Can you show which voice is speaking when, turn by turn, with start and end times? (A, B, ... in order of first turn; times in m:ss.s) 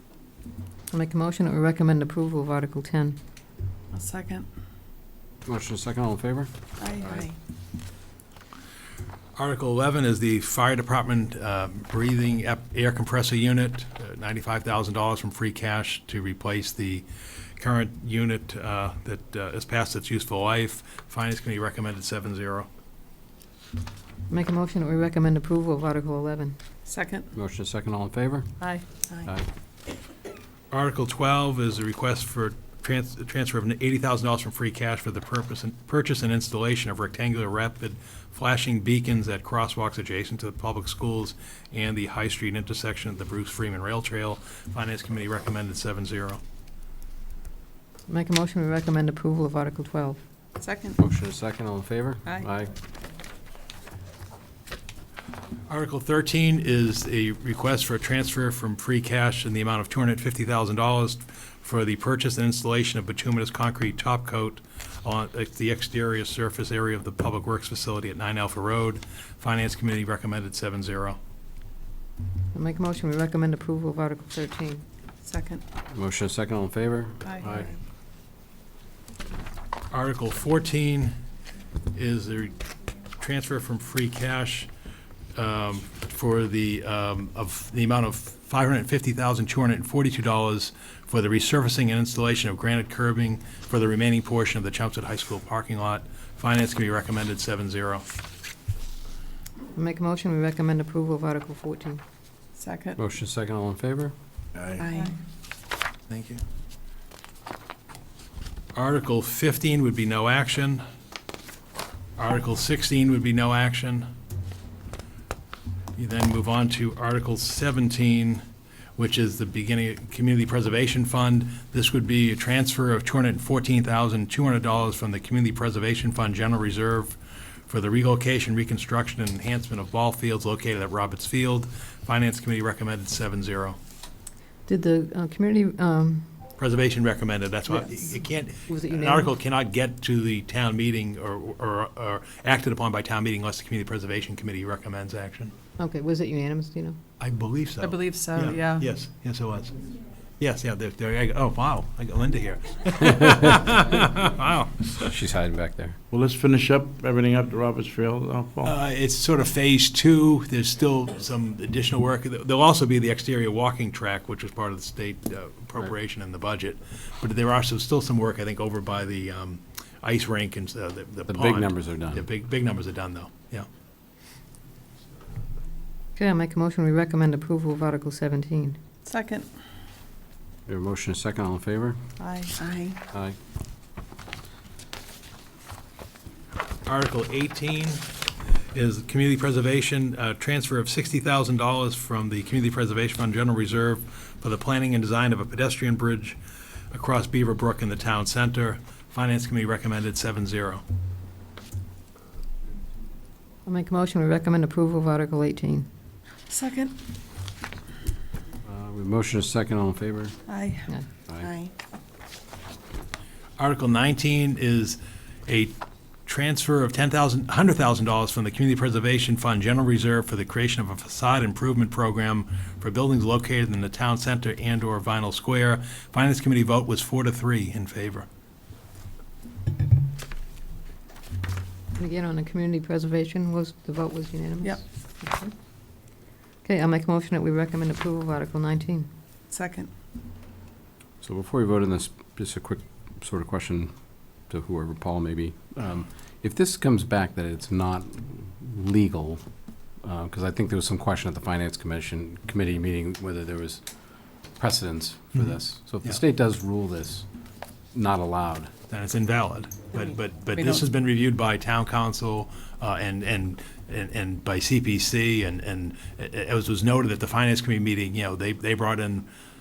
0:00.9-0:03.2 A
0:03.9-0:04.5 B
0:05.4-0:07.2 C
0:06.8-0:07.4 B
0:09.4-0:17.0 D
0:17.6-0:22.7 D
0:24.3-0:26.6 A
0:26.9-0:27.3 B
0:27.3-0:28.6 C
0:28.6-0:29.3 B
0:30.7-0:46.4 D
0:48.1-0:50.2 A
0:50.6-0:51.0 B
0:51.0-0:52.7 C
0:55.7-1:11.2 D
1:12.5-1:14.8 A
1:15.2-1:15.6 B
1:15.9-1:17.7 C
1:19.9-1:21.2 D
1:21.9-1:22.5 D
1:23.2-1:24.7 D
1:25.3-1:38.1 D
1:39.7-1:42.0 A
1:42.6-1:43.0 B
1:43.0-1:44.1 C
1:44.6-1:44.9 E
1:44.8-1:45.1 B
1:46.1-1:46.4 D
1:48.7-1:50.8 D
1:52.2-1:54.1 D
1:56.0-1:58.4 D
1:59.0-2:13.8 D
2:14.7-2:16.3 A
2:16.6-2:25.5 D
2:17.7-2:19.3 A
2:25.8-2:27.0 A
2:27.2-2:29.8 D
2:27.8-2:28.9 B
2:30.4-2:35.1 D
2:33.2-2:33.5 C
2:35.0-2:36.0 C
2:36.1-2:38.7 E
2:38.6-2:53.7 D
2:51.3-2:52.2 C
2:56.2-2:58.8 A
2:59.0-2:59.5 B
3:00.7-3:02.0 C
3:02.2-3:03.0 B
3:06.8-3:08.1 D
3:08.7-3:16.4 D
3:16.9-3:20.8 D
3:23.6-3:25.8 A
3:26.5-3:26.9 B
3:28.6-3:30.4 C
3:30.5-3:31.7 B
3:33.6-3:48.3 D
3:52.0-3:55.5 A
3:56.6-3:59.1 A
3:59.5-3:59.9 B
4:01.2-4:03.9 C
4:04.5-4:09.4 C
4:10.0-4:13.8 C
4:14.6-4:17.2 C
4:17.9-4:18.7 C
4:18.9-4:29.3 D